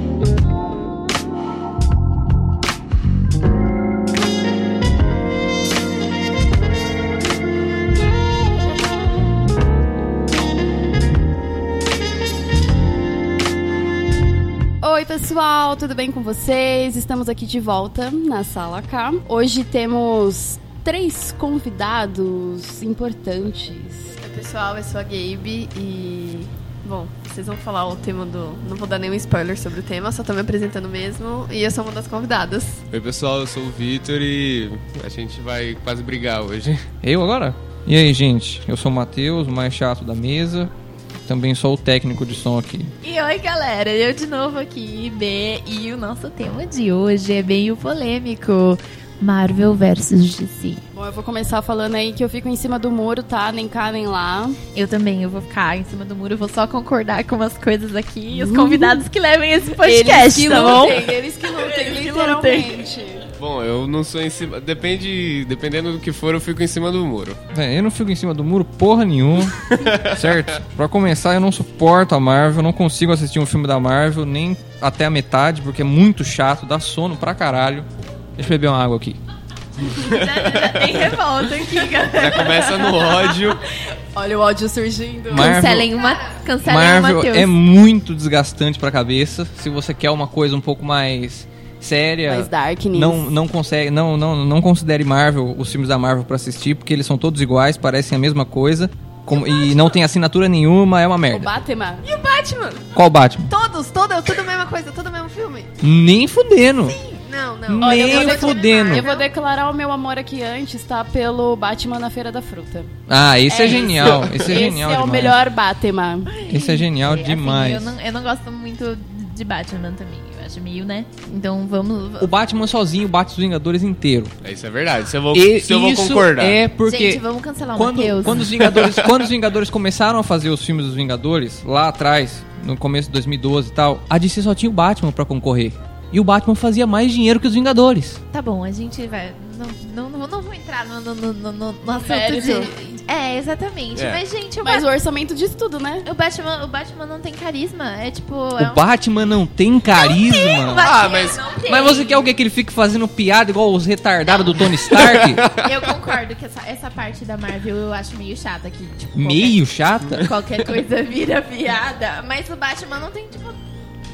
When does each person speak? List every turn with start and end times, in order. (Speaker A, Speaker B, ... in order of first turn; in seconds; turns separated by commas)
Speaker A: 14.8-24.1, Speaker B: 24.2-32.8, Speaker C: 32.9-36.9, Speaker D: 37.0-40.7, Speaker D: 41.2-42.9, Speaker E: 43.0-50.8, Speaker A: 50.9-54.6, Speaker E: 54.7-62.9, Speaker A: 58.3-59.0, Speaker A: 59.7-63.2, Speaker C: 63.4-67.4, Speaker D: 67.5-79.2, Speaker C: 69.6-70.5, Speaker C: 79.9-81.2, Speaker E: 79.9-83.5, Speaker C: 82.1-83.6, Speaker A: 84.1-85.6, Speaker E: 85.3-87.5, Speaker D: 85.3-85.9, Speaker B: 85.9-86.4, Speaker D: 86.6-101.5, Speaker A: 92.3-93.3, Speaker B: 99.3-100.0, Speaker A: 101.3-102.0, Speaker B: 102.0-102.9, Speaker D: 102.9-103.5, Speaker B: 103.5-105.7, Speaker D: 105.8-107.0, Speaker B: 106.8-109.3, Speaker D: 107.7-109.1, Speaker A: 107.8-112.9, Speaker D: 113.1-115.4, Speaker A: 113.5-116.3, Speaker C: 113.6-114.5, Speaker E: 116.2-122.3, Speaker D: 116.5-117.9, Speaker D: 122.2-124.3, Speaker C: 124.4-126.6, Speaker D: 125.3-127.2, Speaker E: 126.8-128.6, Speaker D: 127.8-138.2, Speaker C: 128.7-129.1, Speaker E: 138.3-144.9, Speaker A: 141.9-142.7, Speaker C: 143.9-144.2, Speaker A: 144.6-146.1, Speaker E: 146.0-148.8, Speaker D: 148.6-150.9, Speaker E: 149.9-152.3, Speaker C: 150.7-151.4, Speaker D: 151.7-155.4, Speaker C: 154.6-155.9, Speaker E: 155.6-159.6, Speaker D: 159.2-160.3, Speaker C: 160.0-160.3, Speaker E: 160.2-163.6